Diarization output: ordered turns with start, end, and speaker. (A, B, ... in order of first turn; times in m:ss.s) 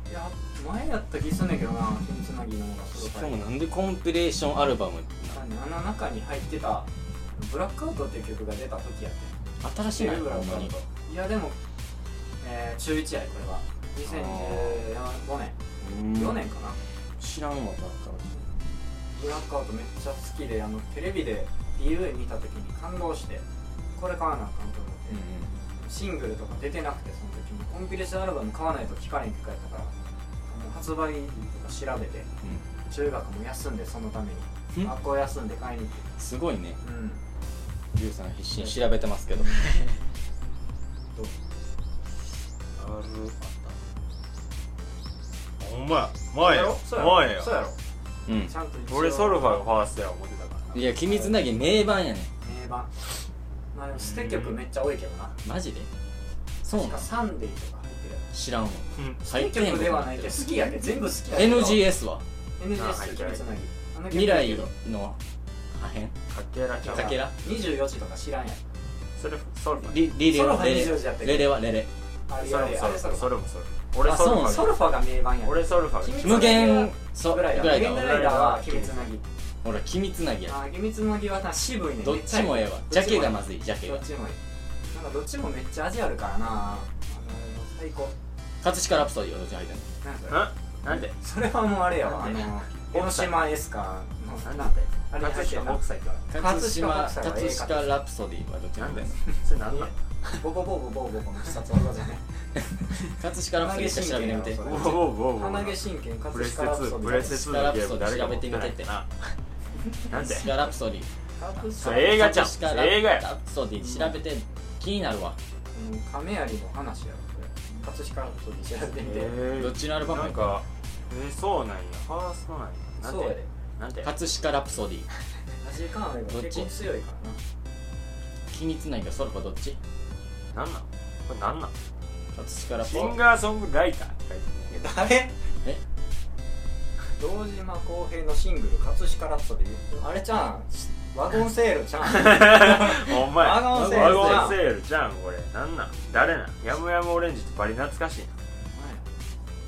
0:00.1-0:03.4 A
0:03.0-0:05.4 B
0:05.3-0:09.4 A
0:09.6-0:10.8 B
0:09.9-0:11.6 A
0:12.4-0:15.6 A
0:14.1-0:14.8 B
0:15.8-0:16.5 B
0:16.1-0:16.8 A
0:17.2-0:18.4 B
0:19.2-0:23.4 A
0:24.0-0:25.2 A
0:25.1-0:25.6 B
0:25.8-0:29.9 A
0:30.5-0:32.3 A
0:32.9-0:36.0 A
0:36.2-0:36.8 B
0:36.8-0:37.2 A
0:37.9-0:39.7 B
0:39.4-0:39.7 A
0:42.8-0:43.8 C
0:45.6-0:47.5 C
0:46.4-0:47.8 A
0:48.3-0:48.5 B
0:48.3-0:49.7 A
0:48.9-0:50.8 C
0:50.7-0:52.3 B
0:51.1-0:51.4 A
0:52.4-0:52.9 A
0:53.7-0:55.4 A
0:54.0-0:54.6 C
0:55.4-0:55.9 B
0:56.6-0:57.1 B
0:56.8-0:58.3 A
0:58.3-1:00.6 B
0:59.2-1:01.9 A
1:01.3-1:02.2 B
1:02.6-1:04.7 A
1:02.8-1:03.5 C
1:04.1-1:05.2 B
1:05.7-1:06.2 B
1:06.3-1:07.2 C
1:06.8-1:08.6 A
1:06.9-1:07.3 B
1:09.2-1:10.0 C
1:09.8-1:11.9 B
1:10.2-1:11.5 A
1:12.3-1:13.3 A
1:12.4-1:14.8 C
1:14.0-1:14.7 B
1:14.1-1:19.2 A
1:15.4-1:16.7 C
1:16.2-1:18.2 B
1:17.8-1:19.1 C
1:19.6-1:20.6 B
1:20.5-1:24.4 A
1:22.0-1:24.0 B
1:24.9-1:28.2 A
1:28.6-1:29.9 B
1:30.0-1:37.9 A
1:30.3-1:31.2 C
1:32.0-1:33.4 C
1:34.4-1:36.3 C
1:36.3-1:39.2 B
1:38.8-1:40.4 C
1:39.2-1:42.3 A
1:43.1-1:45.0 B
1:43.6-1:47.4 A
1:44.6-1:45.8 C
1:46.3-1:49.4 C
1:47.2-1:48.9 B
1:50.1-1:50.5 C
1:50.1-1:51.1 B
1:51.4-1:52.4 A
1:51.8-1:53.3 C
1:51.8-1:55.4 B
1:55.7-1:59.4 A
1:59.0-2:04.1 C
1:59.5-2:00.6 B
2:03.0-2:03.5 A
2:04.0-2:05.1 B
2:05.6-2:07.4 A
2:06.3-2:06.7 B
2:08.5-2:09.8 B
2:10.5-2:11.7 C
2:12.3-2:13.2 B
2:12.8-2:15.0 C
2:14.7-2:15.4 A
2:17.2-2:24.6 A
2:22.0-2:28.4 C
2:23.6-2:24.6 B
2:28.6-2:29.0 A